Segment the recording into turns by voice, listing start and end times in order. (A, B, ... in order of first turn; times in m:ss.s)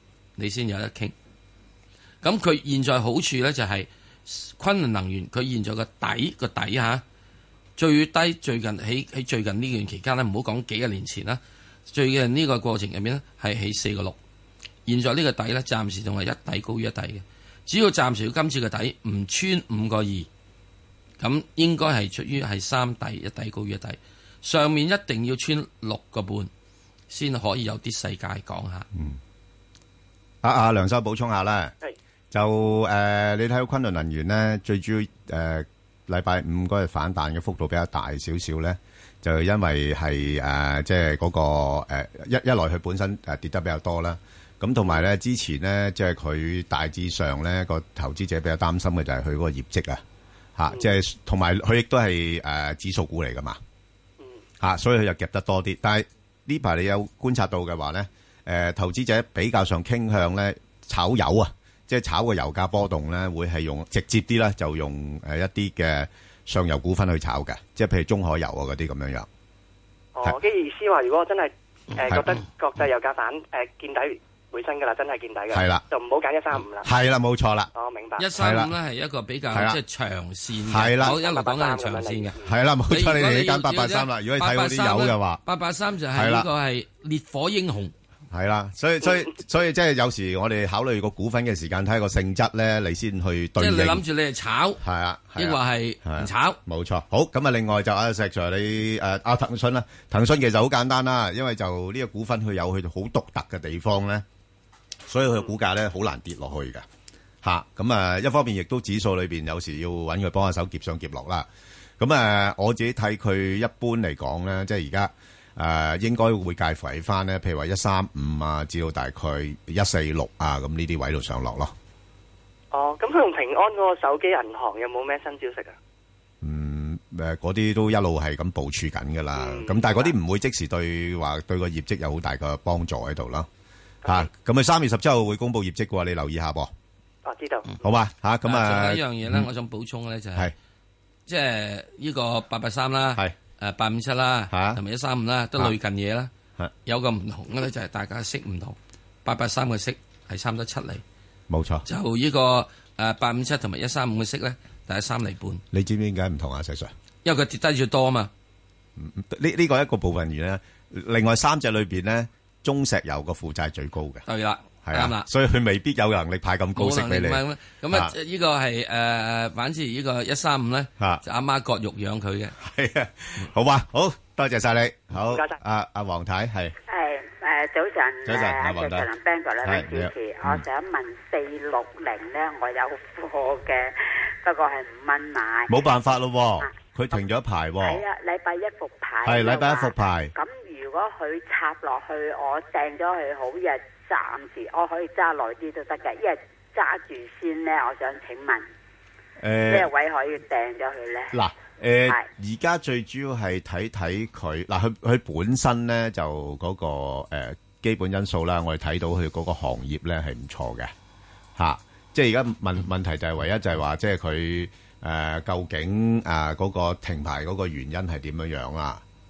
0:00.4-0:01.1 A
0:02.2-0:07.0 A
0:07.8-0:14.2 A
0:14.9-0:20.3 A
0:21.2-0:26.5 A
0:27.1-0:28.9 A
0:30.4-0:31.7 B
0:32.3-0:50.0 B
0:50.6-0:53.6 B
0:54.6-1:09.3 B
1:10.2-1:16.9 C
1:15.5-1:15.8 B
1:16.8-1:17.7 B
1:17.8-1:18.3 C
1:18.2-1:22.4 A
1:18.4-1:18.7 B
1:19.5-1:19.8 B
1:20.7-1:21.2 B
1:21.0-1:22.4 C
1:22.4-1:25.4 B
1:22.9-1:27.9 A
1:26.1-1:26.5 B
1:28.3-1:34.0 B
1:33.6-1:34.8 A
1:34.8-1:44.2 B
1:35.4-1:36.6 A
1:45.1-1:46.8 B
1:47.4-1:51.5 B
1:52.0-2:01.7 B
2:02.7-2:05.8 C
2:06.4-2:13.5 B
2:09.4-2:10.1 C
2:14.0-2:16.7 B
2:17.2-2:17.7 C
2:17.8-2:19.5 B
2:18.4-2:20.5 A
2:21.3-2:26.3 A
2:24.5-2:24.8 B
2:26.9-2:31.0 A
2:31.5-2:31.8 B
2:31.9-2:35.6 A
2:35.7-2:36.9 B
2:37.2-2:38.3 A
2:39.0-2:44.2 B
2:44.3-2:45.3 A
2:44.9-2:48.1 B
2:46.8-2:52.5 A
2:52.6-2:56.8 B
2:55.2-2:55.6 C
2:56.9-3:05.8 D
2:58.2-2:59.1 B
2:59.6-3:00.6 B
3:05.7-3:08.0 B
3:06.6-3:07.2 D
3:07.8-3:18.7 D
3:09.2-3:10.3 B
3:19.4-3:19.9 B
3:19.7-3:21.4 D
3:21.3-3:30.9 B
3:31.6-3:39.0 B